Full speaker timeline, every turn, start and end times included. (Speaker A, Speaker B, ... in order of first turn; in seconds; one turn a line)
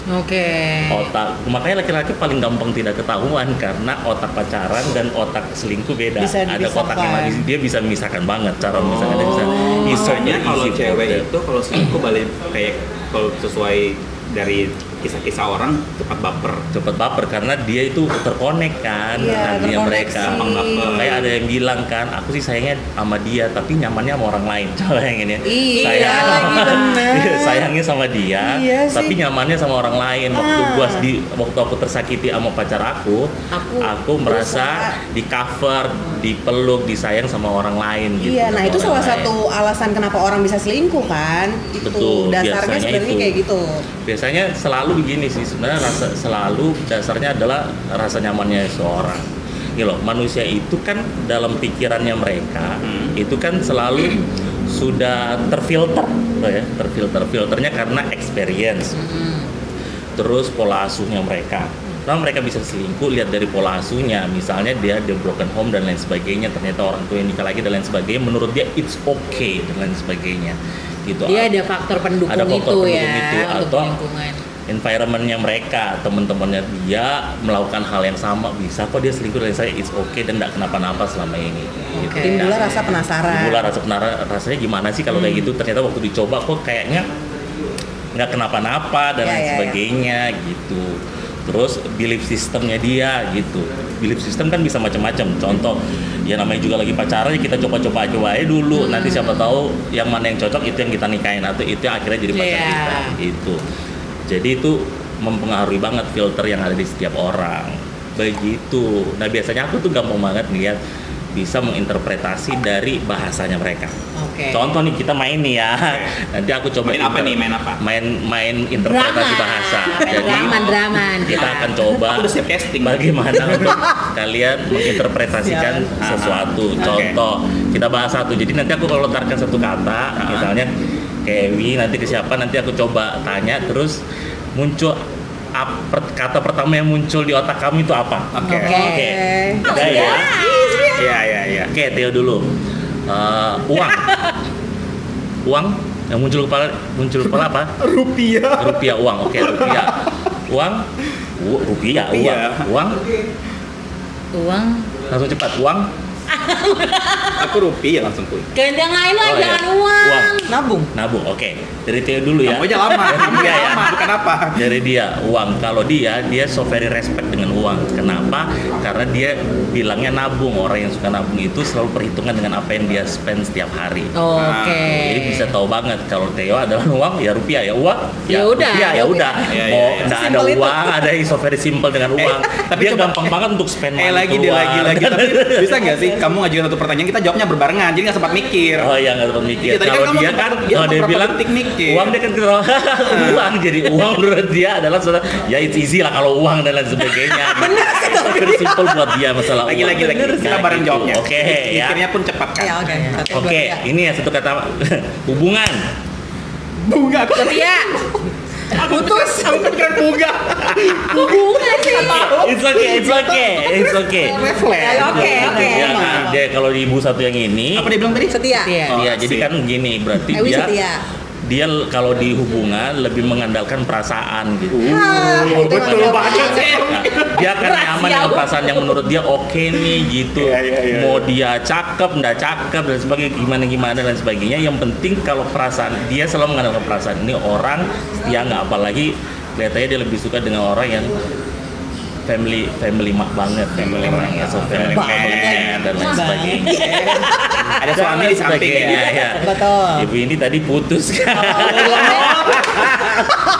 Speaker A: 0.1-1.1
Speaker B: 0.9-11.2
Speaker C: 6.2-7.4
Speaker D: 8.7-16.7
Speaker A: 9.2-10.1
Speaker B: 16.7-39.3
Speaker C: 19.1-21.1
Speaker D: 20.1-21.3
Speaker C: 25.4-27.7
Speaker A: 25.7-27.1
Speaker C: 28.4-29.2
Speaker C: 30.3-31.0
Speaker A: 33.5-33.9
Speaker C: 34.2-34.9
Speaker C: 38.2-43.8
Speaker B: 41.8-43.4
Speaker B: 44.0-59.0
Speaker D: 52.8-53.1
Speaker A: 58.9-59.5
Speaker B: 60.1-71.5
Speaker A: 71.2-74.4
Speaker B: 72.3-73.9
Speaker B: 74.7-87.1
Speaker A: 81.9-82.8
Speaker C: 82.2-83.7
Speaker A: 85.1-85.4
Speaker B: 88.1-103.6
Speaker C: 89.2-89.8
Speaker A: 98.8-99.4
Speaker A: 102.3-103.2
Speaker B: 104.3-110.8
Speaker B: 111.3-113.9
Speaker A: 114.2-114.7
Speaker B: 114.5-130.7
Speaker D: 115.8-116.1
Speaker D: 116.8-117.8
Speaker A: 118.8-121.7
Speaker D: 120.1-120.7
Speaker D: 121.4-123.8
Speaker C: 125.5-125.8
Speaker D: 126.0-127.2
Speaker D: 130.2-130.5
Speaker B: 131.2-134.0
Speaker B: 134.5-135.0
Speaker B: 135.6-140.4
Speaker D: 138.3-138.8
Speaker A: 138.5-139.1
Speaker C: 138.5-140.9
Speaker A: 139.6-141.0
Speaker D: 139.7-140.1
Speaker D: 140.9-141.7
Speaker B: 141.7-142.5
Speaker B: 143.1-144.2
Speaker B: 145.4-147.7
Speaker D: 147.8-150.0
Speaker B: 148.6-150.9
Speaker B: 151.4-153.0
Speaker D: 151.9-152.7
Speaker A: 154.3-154.9
Speaker B: 155.1-155.9
Speaker A: 156.3-157.5
Speaker D: 157.4-158.5
Speaker A: 158.5-160.5
Speaker B: 159.2-160.4
Speaker C: 160.5-160.9
Speaker B: 160.9-174.1
Speaker D: 162.4-164.7
Speaker A: 174.1-175.5
Speaker D: 174.3-174.9
Speaker B: 174.9-185.8
Speaker A: 178.3-179.4
Speaker D: 179.5-180.2
Speaker C: 180.0-181.0
Speaker D: 182.2-183.3
Speaker D: 183.9-188.9
Speaker C: 185.8-186.2
Speaker B: 188.8-202.0
Speaker D: 189.6-192.1
Speaker D: 193.1-193.4
Speaker C: 197.3-199.2
Speaker D: 199.6-202.9
Speaker C: 199.9-200.4
Speaker C: 202.6-203.8
Speaker B: 203.3-205.8
Speaker D: 206.8-208.0
Speaker A: 207.3-207.9
Speaker D: 208.7-213.0
Speaker C: 208.7-209.8
Speaker A: 211.1-212.4
Speaker B: 211.9-214.4
Speaker C: 212.0-212.2
Speaker C: 212.9-216.3
Speaker D: 214.1-216.2
Speaker A: 214.8-216.3
Speaker B: 214.9-217.9
Speaker D: 217.7-219.5
Speaker C: 218.3-218.8
Speaker A: 218.6-219.0
Speaker B: 218.9-220.8
Speaker C: 220.3-221.0
Speaker B: 221.4-241.1
Speaker D: 224.7-227.4
Speaker C: 224.8-226.9
Speaker A: 227.3-229.0
Speaker D: 230.4-231.3
Speaker B: 242.2-253.3
Speaker D: 243.8-245.9
Speaker C: 244.8-247.4
Speaker A: 246.1-247.4
Speaker D: 246.7-249.1
Speaker C: 248.9-250.1
Speaker C: 251.3-253.4
Speaker D: 251.6-252.6